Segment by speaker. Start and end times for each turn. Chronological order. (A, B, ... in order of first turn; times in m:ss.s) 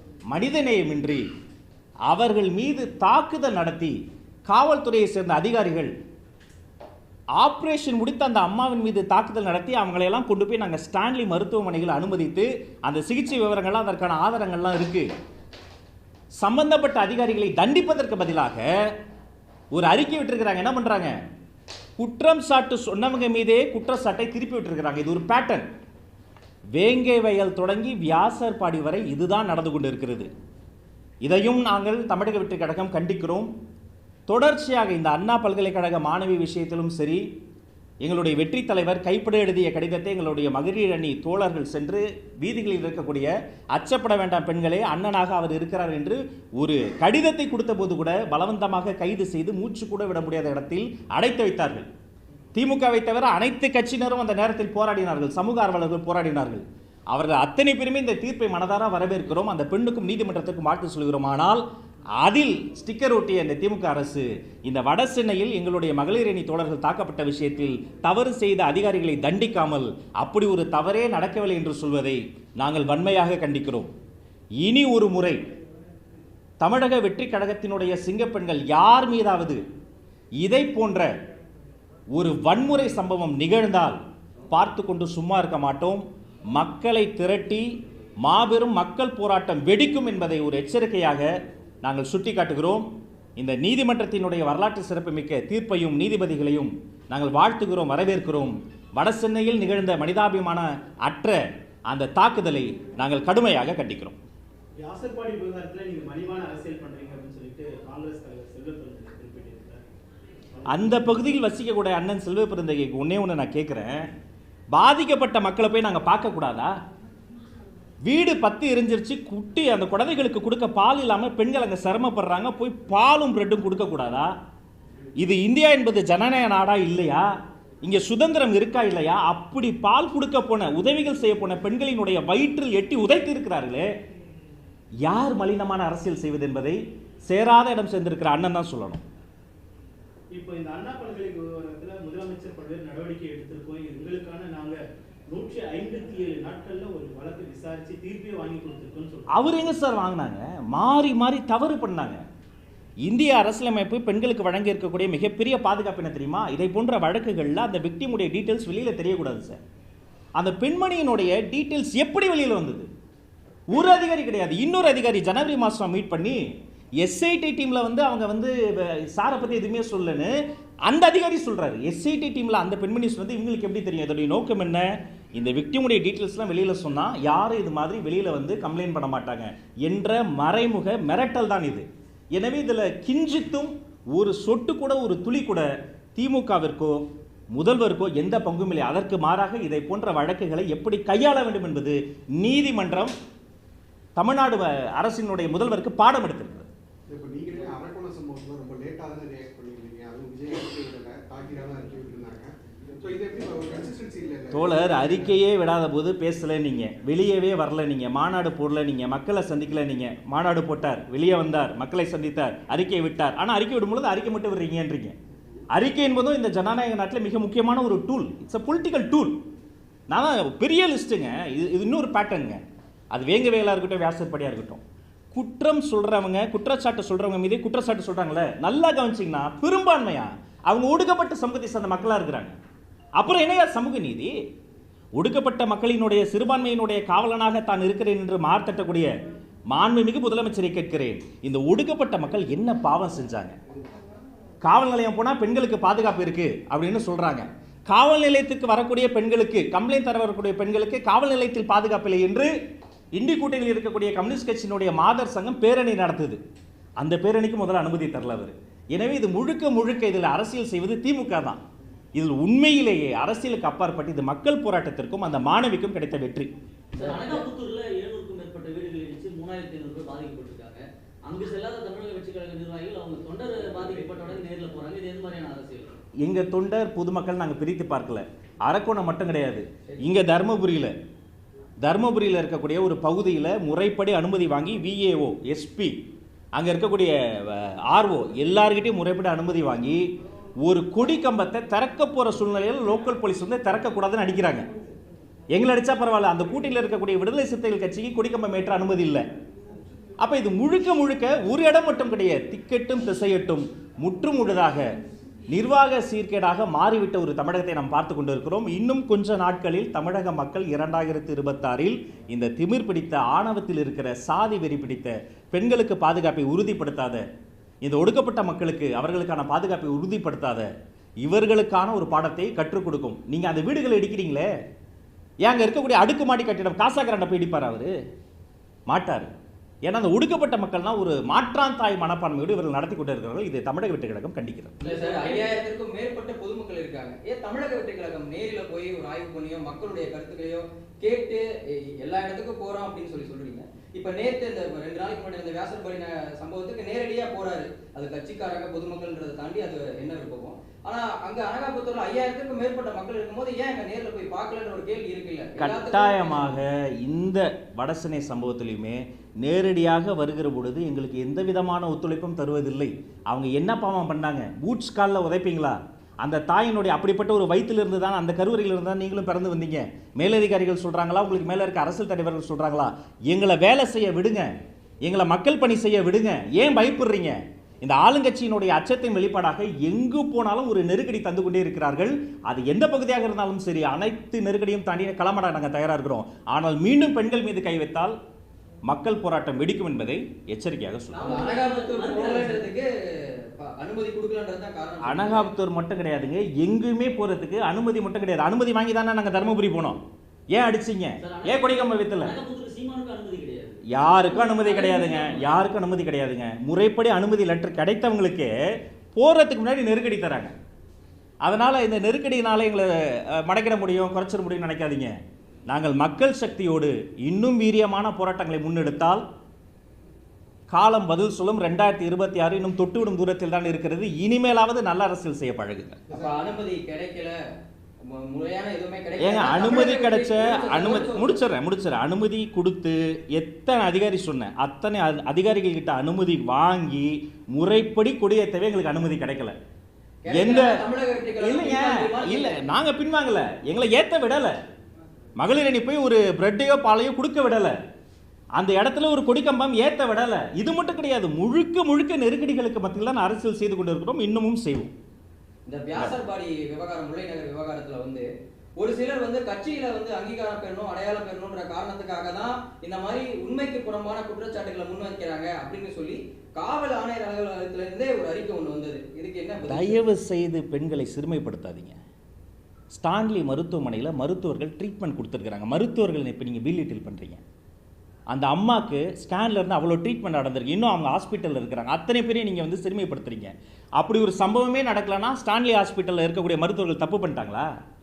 0:00.3-0:01.2 A
0:02.1-0:05.9 A
0:07.4-0:15.1 A
0:16.4-0:18.9 A
0:19.7-0:21.1 A
0:22.0-0:25.7 A
0:26.8-0:30.3 A
0:31.2-0:33.5 A
0:34.3-0:37.2 A
0:38.0-0:51.9 A
0:52.5-1:01.6 A
1:02.2-1:13.9 A
1:14.6-1:15.4 A
1:16.6-1:19.6 A
1:20.4-1:21.1 A
1:22.1-1:24.0 A
1:24.5-1:27.7 A
1:28.2-1:31.3 A
1:31.8-1:44.2 A
1:44.8-1:49.8 B
1:50.6-1:50.9 B
1:50.7-1:54.0 A
1:54.7-1:56.7 A
1:58.0-2:04.3 A
2:05.2-2:07.3 A
2:07.8-2:13.9 A
2:15.0-2:19.0 A
2:20.3-2:29.4 B
2:29.3-2:32.2 A
2:33.0-2:39.6 A
2:40.4-2:42.9 A
2:43.7-2:50.3 A
2:50.8-3:13.1 A
3:14.2-3:16.7 A
3:17.1-3:25.4 C
3:24.5-3:35.2 A
3:35.7-3:39.4 A
3:40.1-3:42.6 A
3:43.1-3:44.8 A
3:45.3-3:52.6 A
3:53.2-3:54.3 A
3:55.2-3:59.1 A
3:59.7-4:03.6 A
4:04.6-4:12.5 A
4:13.2-4:16.4 A
4:17.0-4:21.6 A
4:22.2-4:26.5 A
4:26.9-4:35.9 D
4:36.2-4:40.9 A
4:41.8-4:46.0 A
4:46.5-4:50.0 A
4:50.6-4:54.6 A
4:55.5-4:59.2 A
5:00.2-5:04.9 A
5:05.5-5:17.2 A
5:17.8-5:20.7 A
5:21.2-5:24.5 A
5:25.4-5:27.9 A
5:28.9-5:29.3 A
5:29.8-5:34.8 A
5:34.8-5:56.5 E
5:55.6-6:14.5 A
6:15.0-6:28.1 A
6:28.9-6:31.3 A
6:31.2-6:32.7 D
6:31.3-6:35.5 E
6:35.0-6:40.0 A
6:40.5-6:42.3 A
6:41.2-6:45.6 D
6:43.9-6:48.5 A
6:49.1-6:50.5 A
6:51.4-6:55.1 A
6:55.7-6:59.2 A
7:00.7-7:06.0 A
7:06.1-7:06.4 C
7:06.1-7:07.4 E
7:08.0-7:11.4 E
7:09.2-7:19.5 A
7:20.2-7:22.6 E
7:20.3-7:20.8 A
7:21.4-7:24.5 A
7:25.4-7:27.8 A
7:28.6-7:34.9 A
7:35.6-7:50.0 E
7:49.6-7:52.0 A
7:52.9-7:57.4 A
7:58.3-8:07.7 A